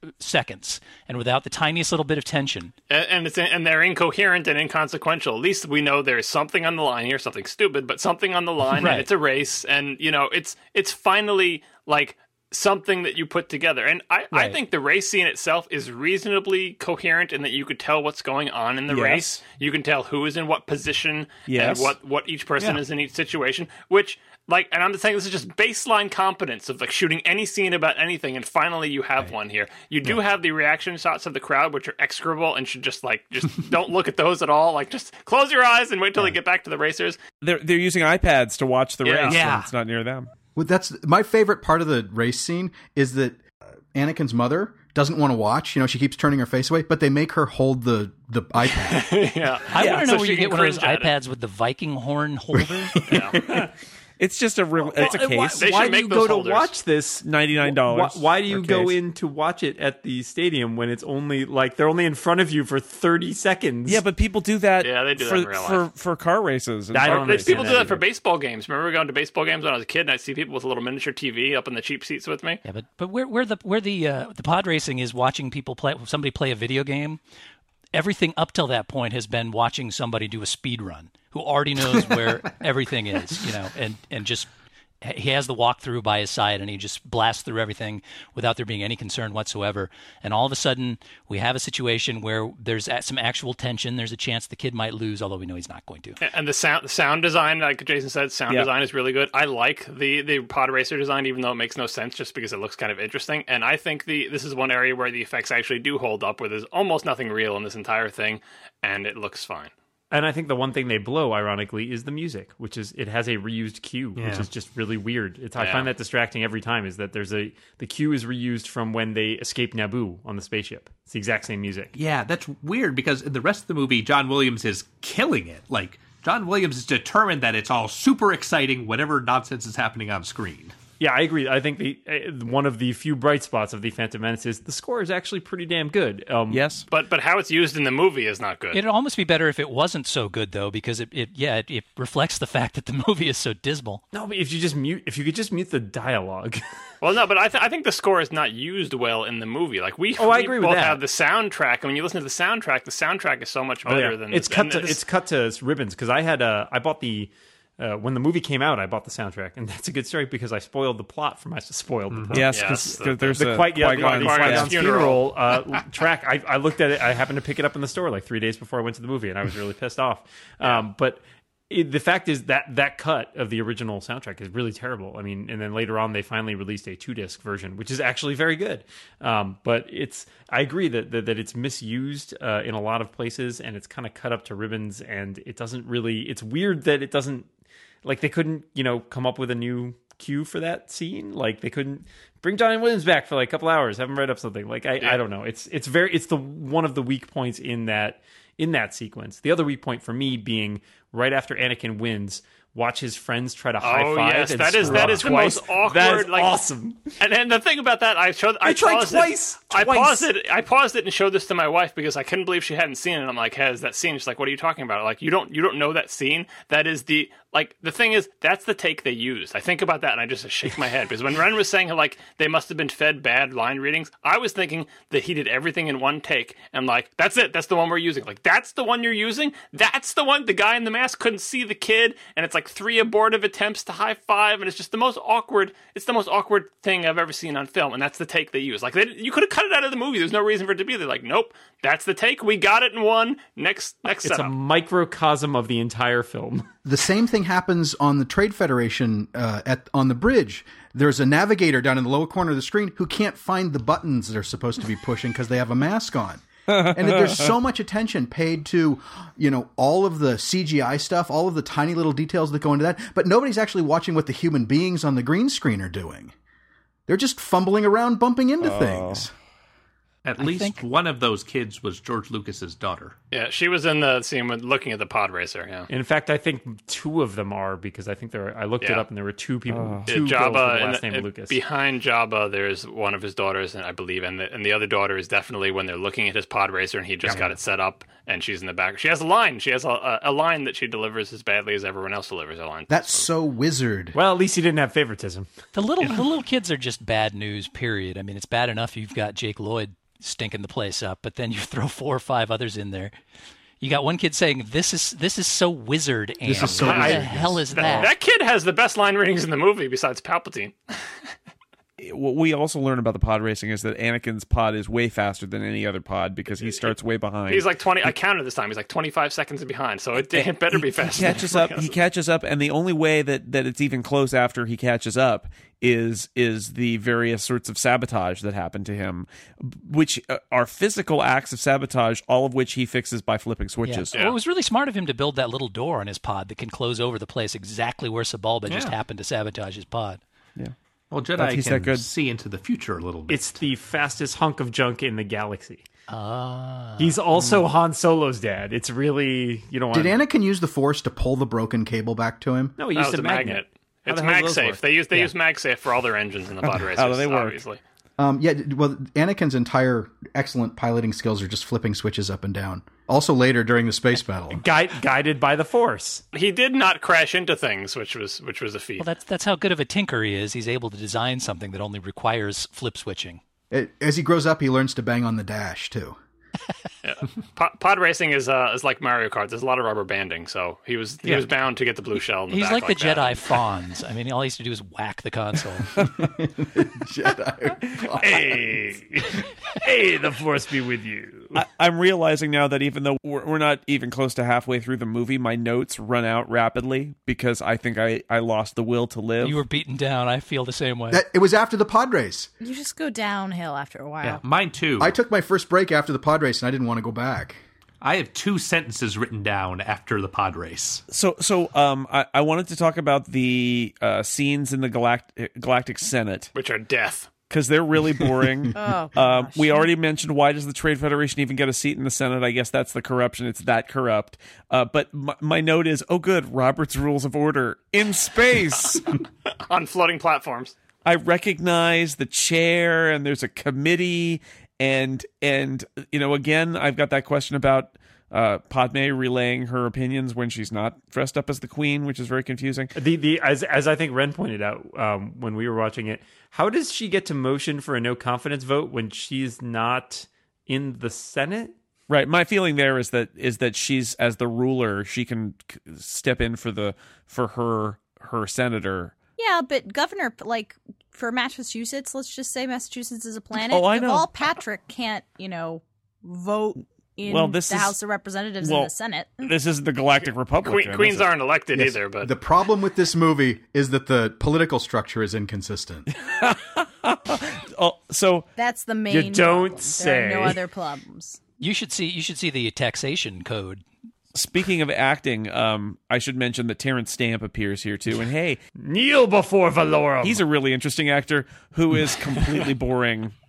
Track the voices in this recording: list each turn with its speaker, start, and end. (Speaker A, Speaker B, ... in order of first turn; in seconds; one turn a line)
Speaker A: 0.2-2.7
Speaker B: 2.9-37.2
Speaker A: 8.7-9.1
Speaker C: 18.9-19.4
Speaker C: 21.5-21.9
Speaker C: 37.4-40.3
Speaker B: 39.0-39.4
Speaker D: 39.3-39.7
Speaker E: 40.5-49.1
Speaker B: 48.8-51.1
Speaker A: 49.7-53.2
Speaker C: 49.7-50.1
Speaker B: 53.1-53.4
Speaker C: 54.2-55.7
Speaker F: 54.9-64.0
Speaker B: 55.0-56.7
Speaker C: 57.2-58.9
Speaker C: 63.9-67.8
Speaker B: 64.8-65.8
Speaker F: 66.9-68.0
Speaker B: 67.0-72.6
Speaker A: 72.6-77.2
Speaker A: 77.9-84.5
Speaker A: 85.0-96.2
Speaker B: 96.2-109.7
Speaker F: 110.1-121.9
Speaker D: 114.2-114.5
Speaker B: 115.5-115.9
Speaker D: 121.9-130.8
Speaker F: 131.0-136.7
Speaker C: 136.5-136.8
Speaker B: 136.9-138.8
Speaker A: 138.7-144.0
Speaker F: 144.1-146.6
Speaker B: 147.0-155.0
Speaker F: 150.2-151.0
Speaker F: 153.8-187.5
Speaker D: 162.1-162.4
Speaker C: 162.3-164.9
Speaker B: 162.5-165.2
Speaker F: 188.0-207.1
Speaker B: 203.8-206.6
Speaker B: 207.2-244.5
Speaker F: 208.6-210.2
Speaker C: 209.8-210.2
Speaker F: 244.2-246.7
Speaker E: 246.8-266.3
Speaker C: 256.7-257.5
Speaker E: 267.1-269.3
Speaker C: 268.6-269.2
Speaker D: 270.2-273.1
Speaker A: 270.4-270.8
Speaker B: 273.3-275.9
Speaker F: 275.9-281.6
Speaker B: 278.8-279.1
Speaker C: 279.7-280.1
Speaker B: 280.1-293.3
Speaker E: 292.9-294.1
Speaker F: 294.1-295.5
Speaker A: 295.7-303.1
Speaker A: 303.8-308.1
Speaker E: 306.4-307.5
Speaker B: 306.7-310.8
Speaker F: 306.9-308.0
Speaker C: 312.0-317.7
Speaker B: 316.6-316.9
Speaker B: 317.5-321.9
Speaker C: 320.3-334.1
Speaker A: 333.8-340.2
Speaker D: 338.7-339.0
Speaker D: 341.1-343.7
Speaker C: 341.4-342.1
Speaker F: 343.3-345.8
Speaker A: 346.1-347.2
Speaker F: 347.0-350.2
Speaker E: 349.9-352.8
Speaker F: 352.8-354.8
Speaker B: 352.9-357.8
Speaker C: 356.9-357.6
Speaker E: 358.2-364.6
Speaker F: 364.5-366.2
Speaker B: 366.3-369.1
Speaker A: 369.0-373.4
Speaker E: 373.7-376.2
Speaker B: 377.0-383.5
Speaker A: 382.5-385.9
Speaker E: 386.0-388.7
Speaker F: 388.0-391.6
Speaker C: 391.5-399.6
Speaker A: 399.4-401.2
Speaker E: 401.1-402.5
Speaker G: 402.6-404.4
Speaker D: 404.2-405.1
Speaker E: 405.0-407.6
Speaker D: 408.0-411.0
Speaker C: 411.1-416.5
Speaker B: 416.5-417.3
Speaker C: 417.5-429.1
Speaker G: 418.7-419.9
Speaker B: 429.7-430.7
Speaker C: 431.0-442.9
Speaker F: 442.9-451.7
Speaker C: 452.1-459.1
Speaker G: 459.4-469.5
Speaker C: 463.6-464.3
Speaker C: 467.3-467.9
Speaker C: 468.6-468.9
Speaker C: 469.4-471.3
Speaker B: 470.6-472.3
Speaker E: 471.7-476.1
Speaker C: 476.2-478.5
Speaker G: 478.6-481.4
Speaker F: 479.1-480.6
Speaker A: 481.6-483.8
Speaker C: 484.3-488.6
Speaker F: 488.8-490.4
Speaker C: 490.2-493.3